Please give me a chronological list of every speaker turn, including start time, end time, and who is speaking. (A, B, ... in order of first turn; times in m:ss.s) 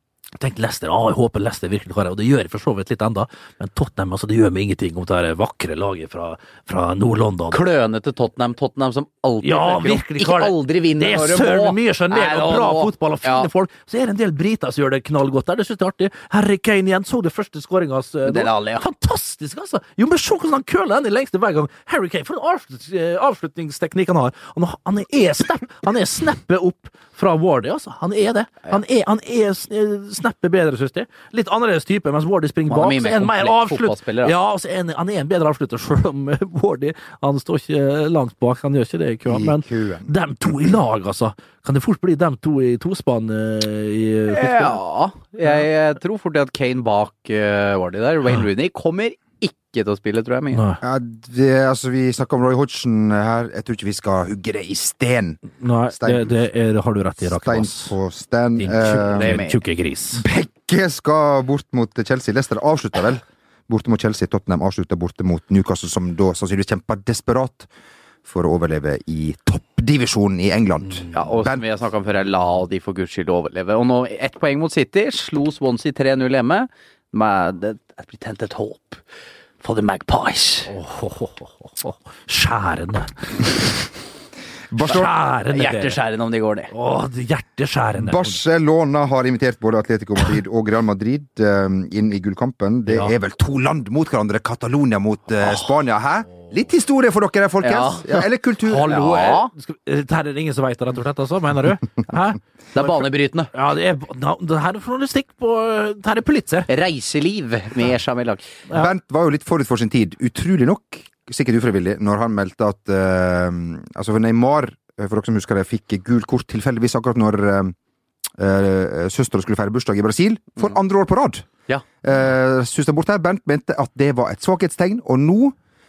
0:00.4-0:07.6 A
0:07.5-0:13.5 B
0:09.4-0:44.8 A
0:18.2-0:18.8 B
0:32.7-0:34.3 B
0:39.2-0:40.1 C
0:44.3-0:50.6 B
0:50.5-0:50.8 A
0:50.8-0:56.3 C
0:55.6-0:57.9 A
0:57.2-0:59.4 C
0:58.6-1:00.2 A
0:59.1-0:59.6 B
1:00.2-1:07.7 C
1:08.2-1:11.6 C
1:10.9-1:11.2 A
1:11.1-1:19.0 B
1:19.6-1:20.7 B
1:20.7-1:23.5 A
1:24.7-1:25.1 C
1:24.8-1:26.0 A
1:24.9-1:26.7 B
1:26.7-1:28.4 A
1:28.0-1:39.0 C
1:32.9-1:33.1 A
1:35.4-1:35.7 B
1:37.6-1:38.2 B
1:38.6-1:46.7 A
1:38.8-1:39.5 B
1:42.7-1:43.5 B
1:46.7-1:48.4 B
1:48.7-1:57.7 C
1:58.4-2:01.5 C
2:02.0-2:05.6 C